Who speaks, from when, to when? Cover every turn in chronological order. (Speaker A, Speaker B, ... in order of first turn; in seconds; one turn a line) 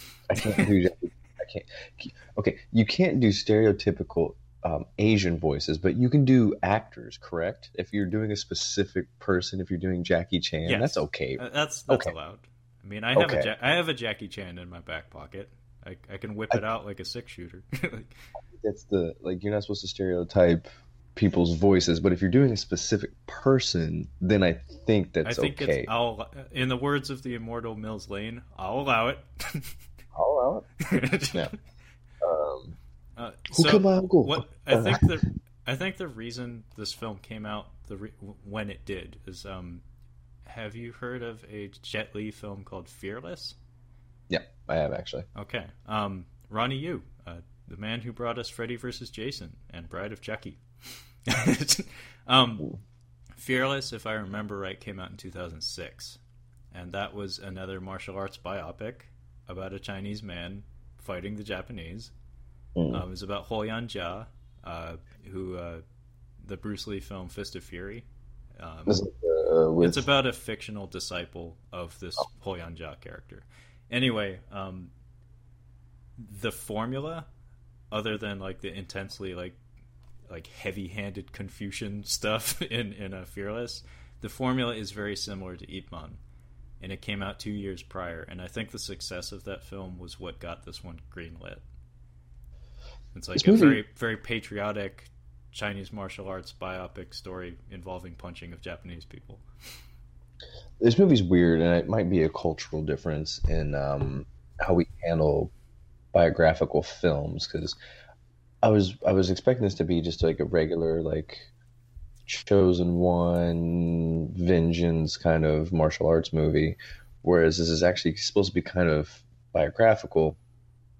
Speaker A: 0.3-12.1
Speaker B: 0.4-0.7
Speaker B: 10.6-18.2
Speaker A: 13.2-13.5
Speaker A: 18.5-25.9
Speaker B: 25.2-29.7
Speaker A: 30.1-30.7
Speaker B: 30.8-31.5
Speaker A: 32.2-32.8
Speaker B: 33.2-39.8
Speaker A: 33.5-35.2
Speaker B: 40.5-43.5
Speaker A: 44.3-45.3
Speaker B: 45.3-52.7
Speaker B: 53.4-56.2
Speaker B: 56.7-62.1
Speaker A: 62.8-63.0
Speaker B: 62.9-65.8
Speaker B: 66.4-68.1
Speaker B: 68.6-69.0
Speaker A: 68.8-70.0
Speaker B: 69.8-74.9
Speaker B: 76.2-77.3
Speaker B: 77.9-79.6
Speaker B: 80.3-86.2
Speaker B: 86.8-91.6
Speaker B: 93.1-99.4
Speaker A: 93.4-93.8
Speaker A: 100.8-105.5
Speaker A: 106.1-107.8
Speaker A: 108.6-111.5
Speaker A: 112.3-120.4